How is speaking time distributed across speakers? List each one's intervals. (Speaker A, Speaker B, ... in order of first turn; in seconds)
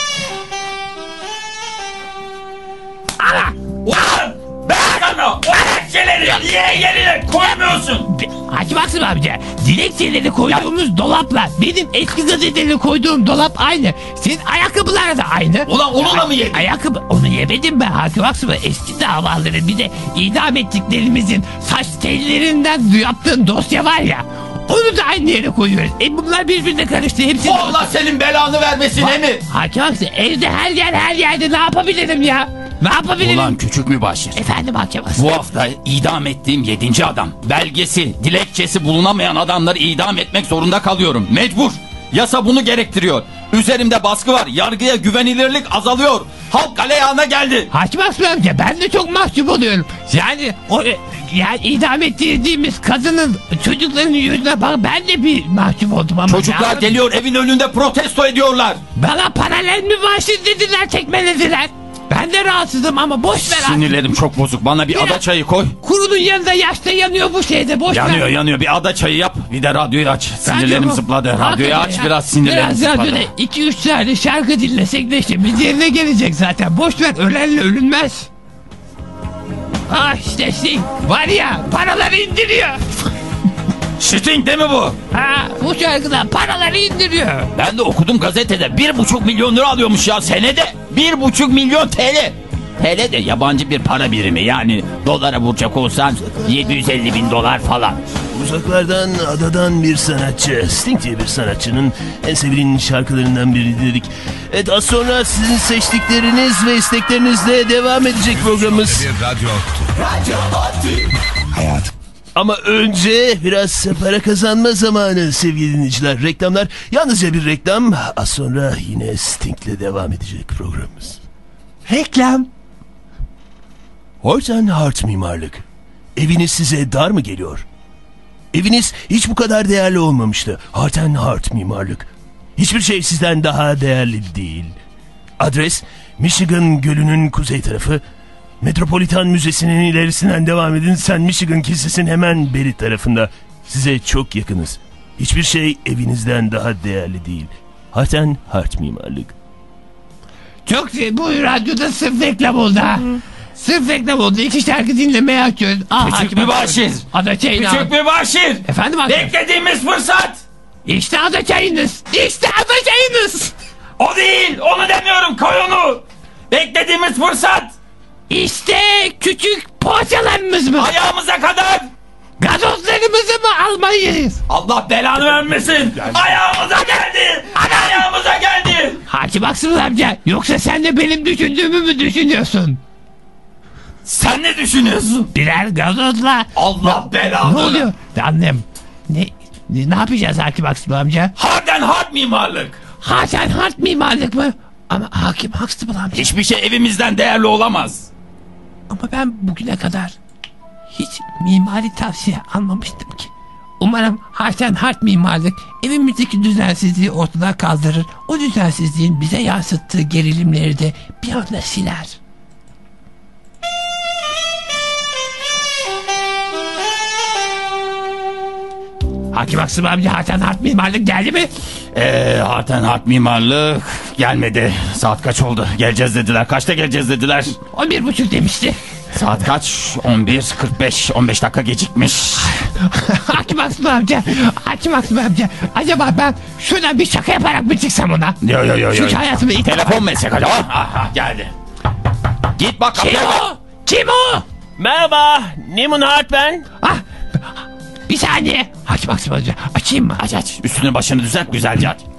Speaker A: 3.2-3.6, 8.2-27.9, 29.0-33.6, 34.4-35.4, 47.7-56.9, 59.0-63.9, 64.9-65.2, 65.8-68.3, 70.4-78.3, 79.9-82.8, 85.1-87.5, 121.9-122.5, 150.7-157.9, 158.7-159.3, 160.9-163.5, 168.3-170.9, 172.4-174.4, 177.6-178.0, 179.1-182.8, 185.3-191.3, 193.0-196.3, 198.9-200.2, 200.9-212.2, 219.3-221.5, 227.7-228.8, 232.8-238.4, 238.9-240.1, 242.9-244.4, 246.8-250.3
Speaker B: 3.8-8.1, 15.7-16.7, 27.4-29.4, 33.2-34.4, 35.2-47.7, 56.3-58.8, 63.4-65.8, 67.9-73.3, 84.0-85.0, 87.5-98.0, 156.0-160.4, 164.0-167.7, 170.8-171.9, 174.5-179.0, 184.1-185.3, 186.6-187.9, 191.4-192.8, 196.1-198.1, 221.9-227.6, 229.1-232.7, 238.4-241.5, 242.5-243.4, 250.2-252.0
Speaker C: 98.3-109.1, 112.4-121.2, 124.2-125.6, 126.2-127.6, 128.5-134.8, 135.4-138.0, 138.6-149.3, 244.8-246.7